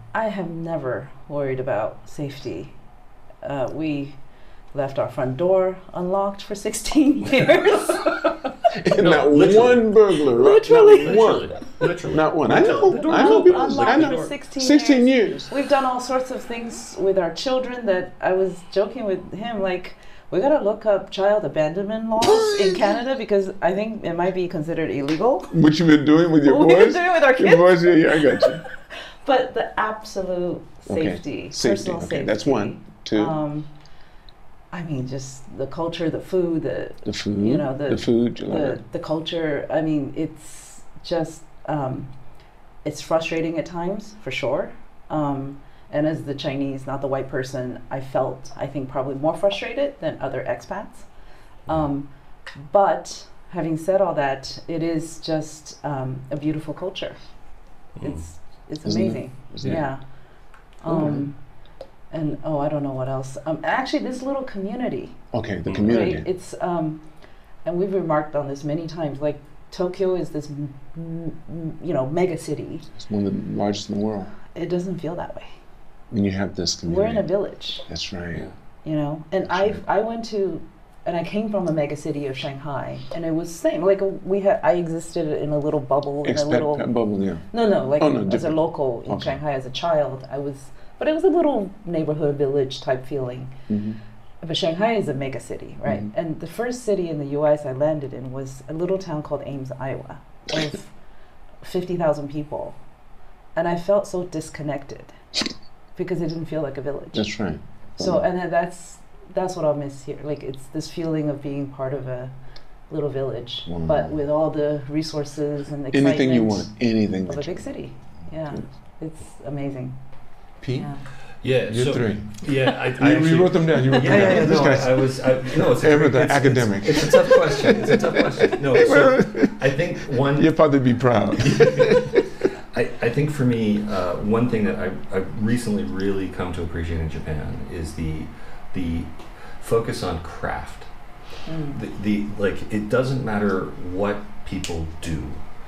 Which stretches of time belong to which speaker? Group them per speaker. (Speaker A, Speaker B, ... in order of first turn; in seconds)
Speaker A: 0.1-2.7, 3.4-4.2, 4.7-8.1, 10.3-11.4, 12.8-25.5, 26.4-28.6, 29.2-33.7, 34.7-42.1, 42.8-51.0, 51.7-57.2, 58.0-60.0, 60.8-61.4, 62.1-65.2, 65.8-67.0, 67.6-72.9, 74.5-75.5, 76.8-77.8, 78.8-86.9, 87.5-93.7, 94.4-100.9, 101.6-102.8, 103.5-105.1, 106.0-107.3, 108.0-112.3, 112.9-116.7, 117.2-120.0, 141.5-141.8
Speaker B: 7.9-8.3, 8.9-14.3, 65.7-66.0, 121.4-130.6, 131.4-140.9, 141.7-145.4
Speaker C: 8.7-15.5, 22.2-22.8, 25.5-28.6, 30.9-33.3, 37.0-38.8, 58.8-59.8, 60.9-61.2, 65.3-66.2, 72.9-74.3, 76.1-77.3, 77.8-78.5, 79.5-79.8, 86.2-89.4, 93.7-94.0, 107.1-108.2, 113.7-114.1, 115.9-117.6, 120.6-120.9, 121.7-129.7, 130.3-132.2